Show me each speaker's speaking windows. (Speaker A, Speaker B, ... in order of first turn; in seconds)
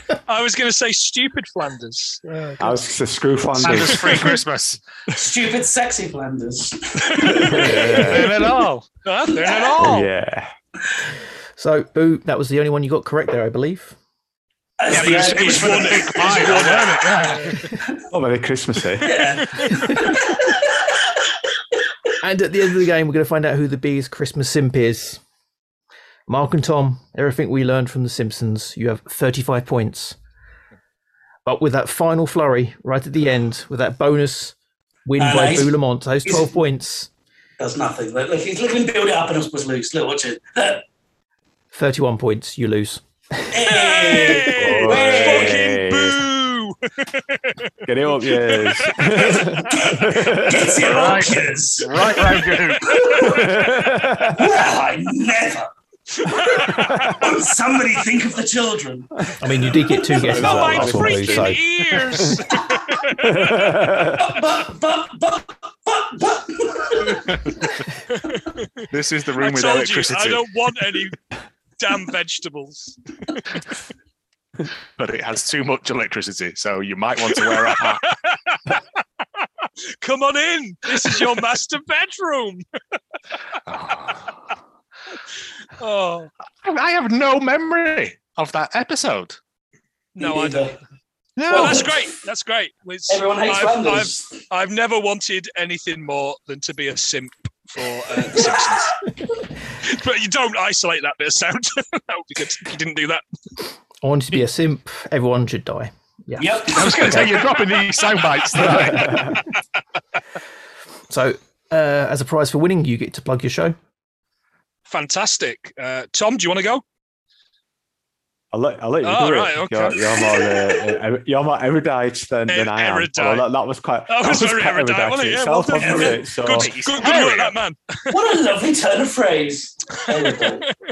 Speaker A: 0.3-2.8, 3.6-4.4, 7.3-8.0, 9.0-10.1, 14.9-17.6, 43.7-49.9, 53.4-53.9, 56.5-57.1, 60.3-63.8, 69.4-71.2, 71.8-73.4, 77.3-78.8, 79.6-82.6, 85.8-86.3, 90.2-90.7, 91.5-99.0, 99.7-103.2, 108.6-109.4, 114.9-116.8, 119.0-121.0, 122.5-123.5, 124.1-128.1, 130.4-130.7
Speaker B: 2.6-4.3, 7.4-8.3, 9.8-10.5, 18.1-19.2, 44.5-46.2, 47.8-50.9, 53.1-54.5, 56.7-57.2, 60.2-62.4, 63.2-64.3, 118.5-126.7
Speaker C: 3.6-4.8, 8.0-8.8, 14.9-17.6, 50.9-53.0, 68.9-70.4, 75.0-78.0, 83.7-84.3, 86.6-89.4, 91.4-91.9, 106.7-109.2, 126.4-127.6
Speaker D: 5.1-8.0, 14.8-16.5, 19.0-21.0, 35.2-35.7, 36.2-36.5, 37.6-40.8, 43.5-45.6, 49.7-53.5, 54.3-55.7, 56.3-59.1, 64.2-67.4, 90.2-90.8, 91.5-91.9, 93.1-94.4, 106.4-107.4, 125.8-126.2, 128.1-130.7
Speaker E: 11.6-13.9, 22.2-25.2, 26.3-30.2, 31.4-37.1, 41.7-43.6, 59.4-61.6, 104.0-107.4, 111.1-113.8